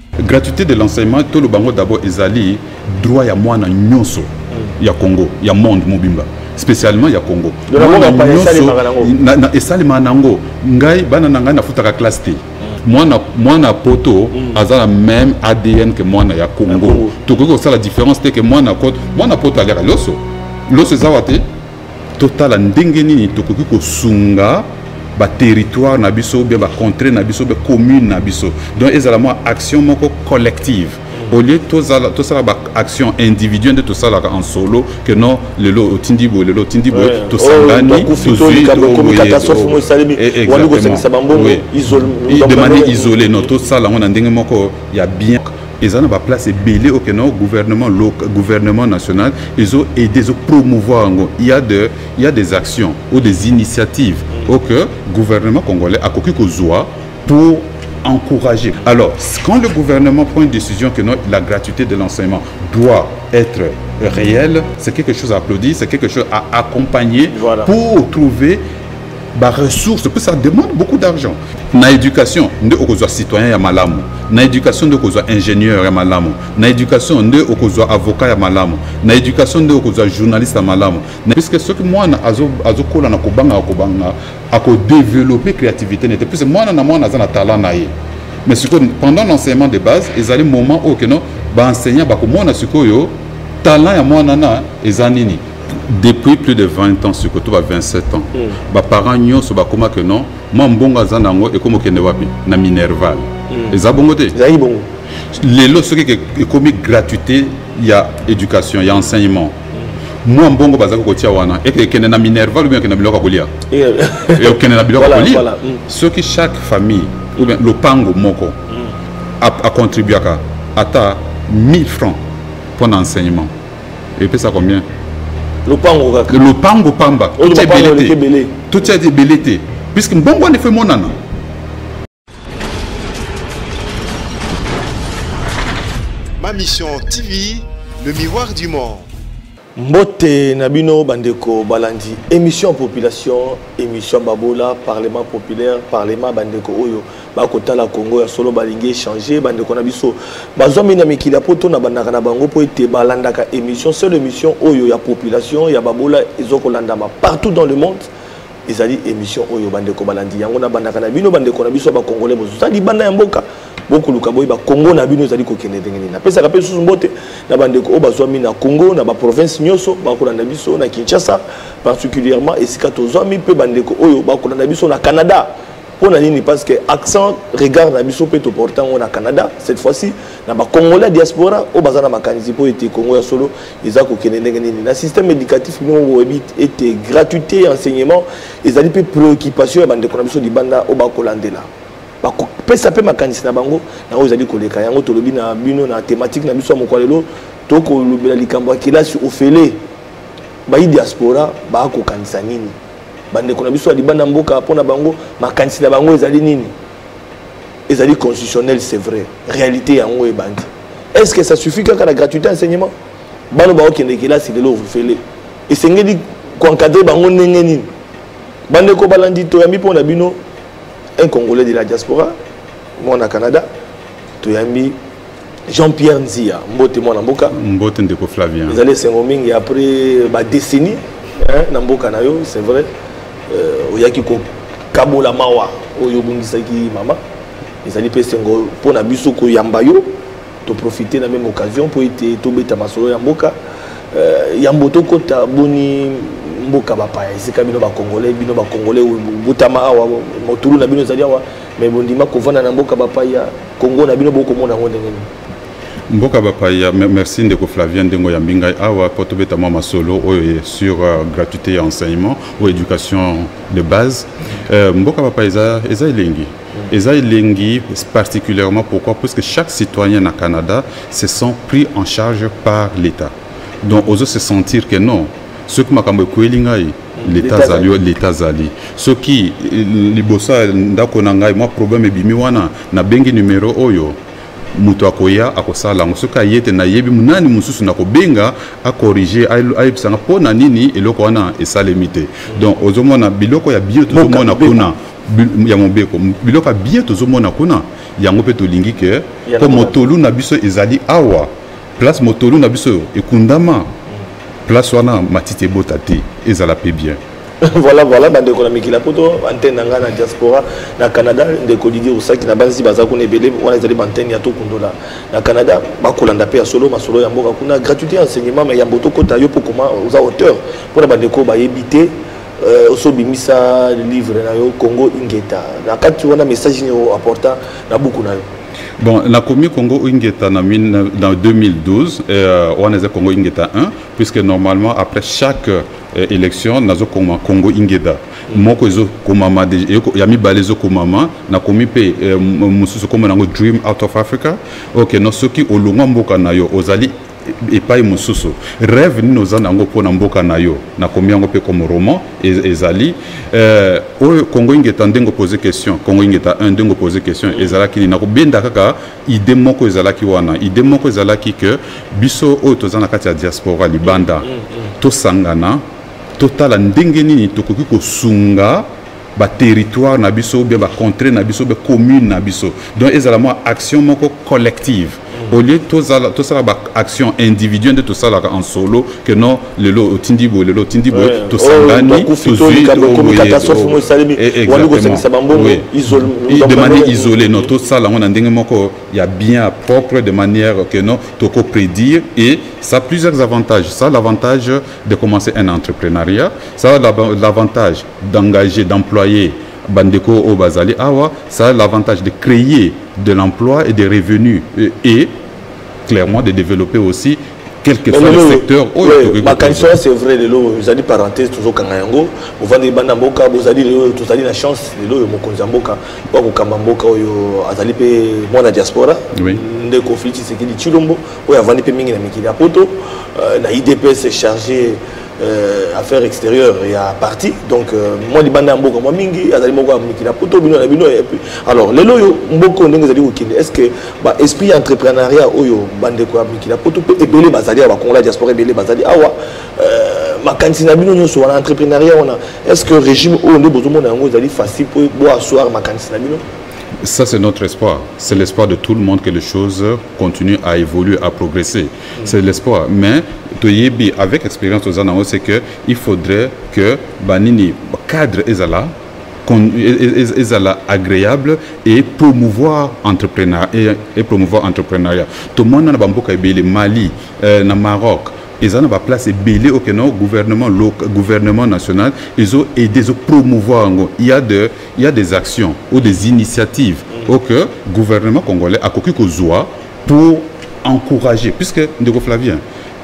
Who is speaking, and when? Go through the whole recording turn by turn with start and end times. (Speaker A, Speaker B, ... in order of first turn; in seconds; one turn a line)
Speaker A: 0.2-21.4
Speaker B: 7.7-9.1
Speaker B: 14.3-14.6
Speaker B: 16.7-17.2
Speaker A: 22.2-68.6
Speaker B: 36.9-43.3
Speaker B: 67.3-67.7
Speaker A: 69.3-87.9
Speaker A: 88.5-104.4
Speaker B: 103.5-103.8
Speaker B: 104.3-104.9
Speaker A: 105.3-109.5
Speaker A: 110.2-113.5
Speaker B: 113.7-115.8
Speaker A: 114.3-118.6
Speaker A: 119.4-122.2
Speaker A: 122.8-123.5
Speaker A: 124.2-124.9
Speaker B: 125.7-126.3
Speaker A: 126.3-128.2
Speaker B: 127.4-128.7
Speaker A: 128.7-131.2
Speaker C: 136.4-139.1
Speaker B: 139.8-158.1
Speaker B: 158.7-191.7
Speaker B: 192.2-199.8
Speaker B: 200.7-202.8
Speaker B: 203.3-206.7
Speaker B: 207.9-212.9
Speaker B: 213.5-217.9
Speaker B: 218.7-220.4
Speaker B: 221.2-222.4
Speaker B: 223.0-223.7
Speaker B: 224.4-225.0
Speaker B: 225.7-227.5
Speaker A: 227.5-228.8
Speaker B: 228.7-232.9
Speaker B: 233.5-237.2
Speaker B: 237.8-240.1
Speaker B: 240.7-243.5
Speaker B: 244.1-255.3
Speaker A: 256.1-284.2
Speaker B: 277.2-277.9
Speaker A: 284.8-303.9
Speaker B: 294.1-294.9
Speaker B: 299.5-300.0
Speaker A: 304.7-307.2
Speaker B: 307.6-328.4
Speaker A: 329.0-365.8
Speaker B: 364.4-364.7
Speaker A: 366.4-405.4
Speaker B: 381.1-387.7
Speaker A: 406.1-410.0
Speaker B: 408.1-446.4
Speaker A: 419.4-419.6
Speaker A: 447.0-458.9
Speaker A: 459.4-482.6